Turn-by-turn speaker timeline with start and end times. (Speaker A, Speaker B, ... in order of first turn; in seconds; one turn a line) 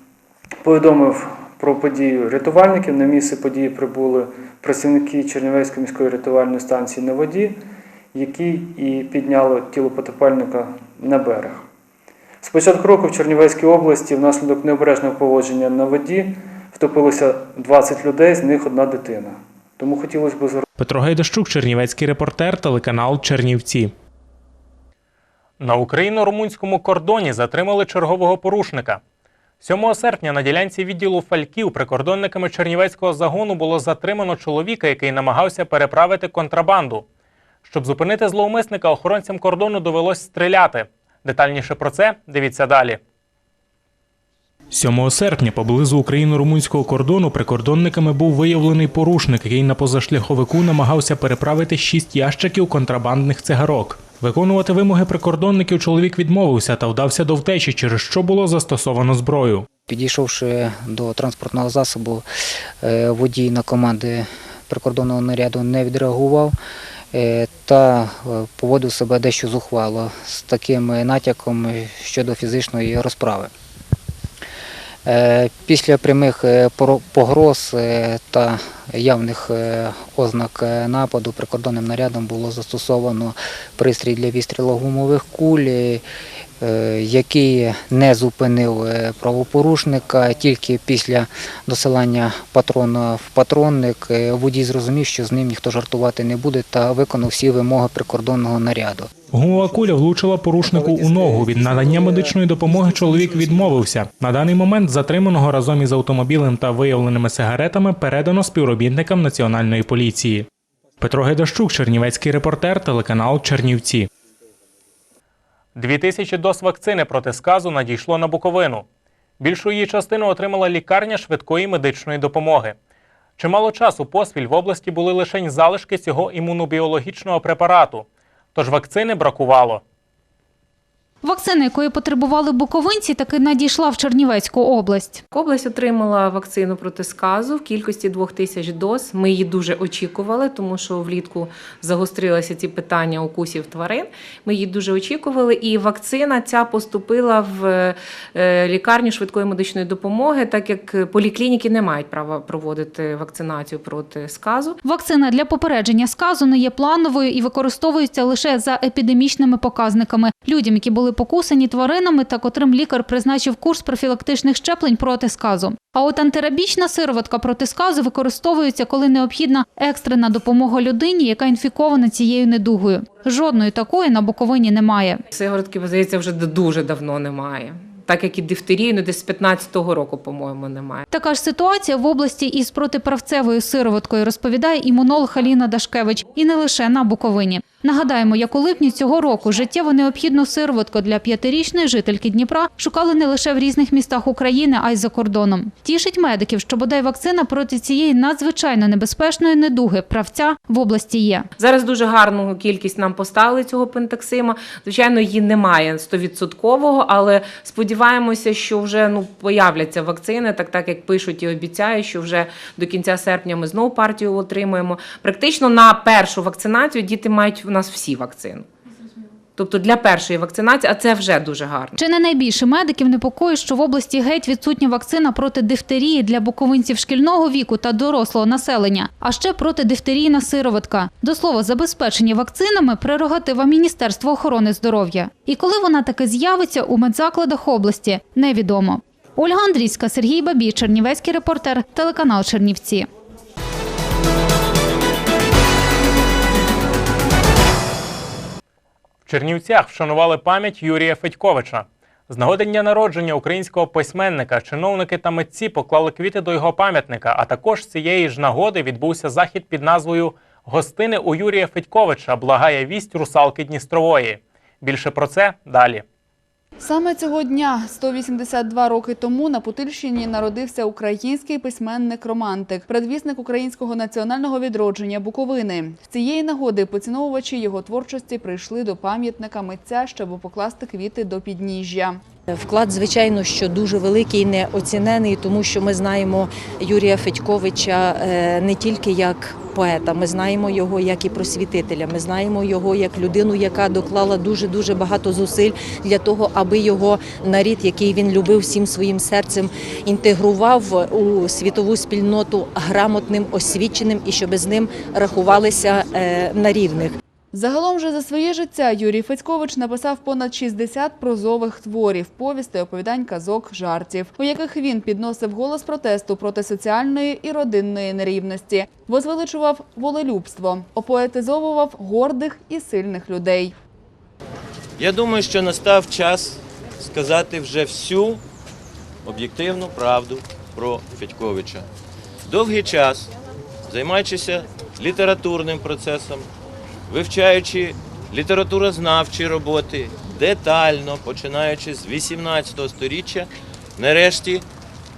Speaker A: 0.6-7.6
Speaker A: 8.1-11.7
Speaker A: 12.4-20.6
Speaker B: 20.8-23.9
Speaker B: 25.6-29.0
Speaker B: 29.6-37.0
Speaker B: 37.6-43.0
Speaker B: 44.7-59.6
Speaker C: 59.9-62.2
Speaker C: 62.8-66.5
Speaker C: 67.1-73.5
Speaker C: 75.0-86.0
Speaker C: 86.6-99.1
Speaker B: 99.3-110.5
Speaker B: 111.0-114.1
Speaker B: 115.8-118.8
Speaker B: 119.4-122.8
Speaker B: 123.4-129.8
Speaker D: 131.2-135.2
Speaker E: 135.3-154.8
Speaker D: 154.8-175.2
Speaker E: 175.3-181.0
Speaker D: 181.1-201.5
Speaker E: 201.6-218.7
Speaker E: 219.6-222.0
Speaker D: 221.9-243.1
Speaker B: 249.2-266.0
Speaker F: 266.8-282.2
Speaker G: 282.5-307.2
Speaker F: 307.5-323.7
Speaker H: 325.0-328.4
Speaker H: 329.2-331.9
Speaker H: 332.4-333.3
Speaker H: 333.9-336.5
Speaker H: 337.1-344.6